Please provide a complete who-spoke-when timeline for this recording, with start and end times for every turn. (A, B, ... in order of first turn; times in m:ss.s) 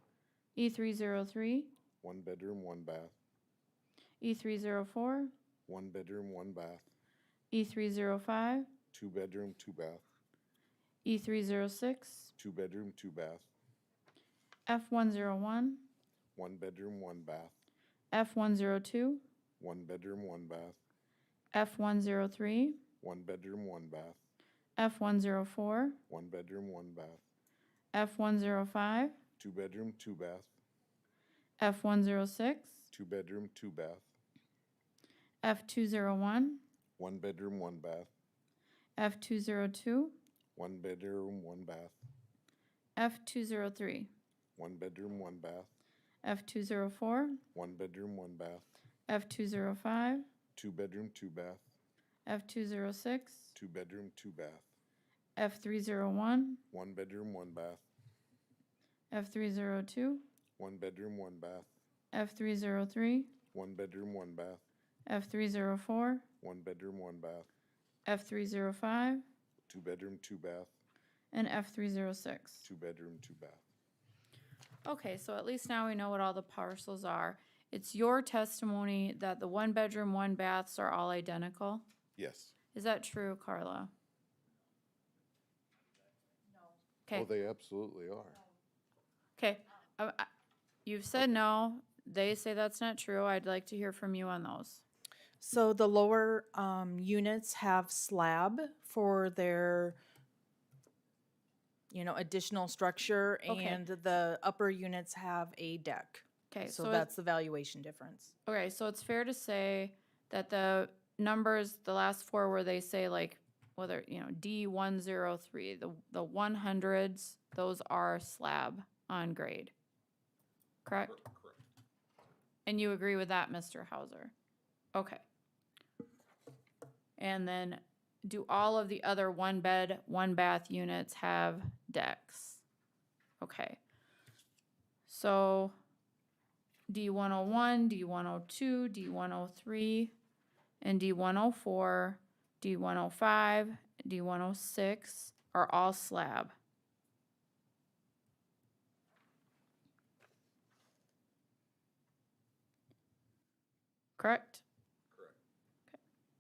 0:00.6-0:01.7 A
0:02.0-0:03.1 B
0:04.2-0:05.3 A
0:05.7-0:06.8 B
0:07.5-0:08.7 A
0:08.9-0:10.0 B
0:11.0-0:12.3 A
0:12.4-0:13.5 B
0:14.7-0:15.8 A
0:16.4-0:17.5 B
0:18.1-0:19.2 A
0:19.6-0:20.8 B
0:21.5-0:22.8 A
0:23.0-0:24.2 B
0:24.8-0:26.0 A
0:26.1-0:27.2 B
0:27.9-0:29.2 A
0:29.4-0:30.5 B
0:31.6-0:32.9 A
0:32.9-0:34.1 B
0:35.4-0:36.6 A
0:37.0-0:38.1 B
0:39.0-0:40.2 A
0:40.6-0:42.0 B
0:43.0-0:44.1 A
0:44.6-0:45.7 B
0:46.2-0:47.4 A
0:47.5-0:48.7 B
0:49.1-0:50.3 A
0:50.6-0:51.7 B
0:52.3-0:53.5 A
0:53.6-0:54.7 B
0:55.4-0:56.6 A
0:56.7-0:57.8 B
0:59.1-1:00.2 A
1:00.6-1:01.7 B
1:02.1-1:03.3 A
1:03.5-1:04.6 B
1:05.1-1:06.2 A
1:06.4-1:07.5 B
1:08.1-1:09.2 A
1:09.7-1:10.7 B
1:11.3-1:12.7 A
1:12.6-1:13.6 B
1:14.8-1:21.8 A
1:22.2-1:22.5 B
1:22.7-1:23.9 A
1:27.1-1:28.4 B
1:29.4-1:30.3 A
1:30.8-1:34.8 A
1:35.4-1:40.0 C
1:41.9-1:48.3 C
1:43.5-1:43.8 A
1:46.5-1:47.1 A
1:48.5-1:59.7 A
2:00.8-2:01.3 A
2:02.7-2:04.3 A
2:05.0-2:05.2 A
2:07.2-2:12.6 A
2:13.4-2:13.8 A
2:15.1-2:15.8 A
2:16.9-2:20.1 A
2:20.8-2:26.5 A
2:34.2-2:34.6 A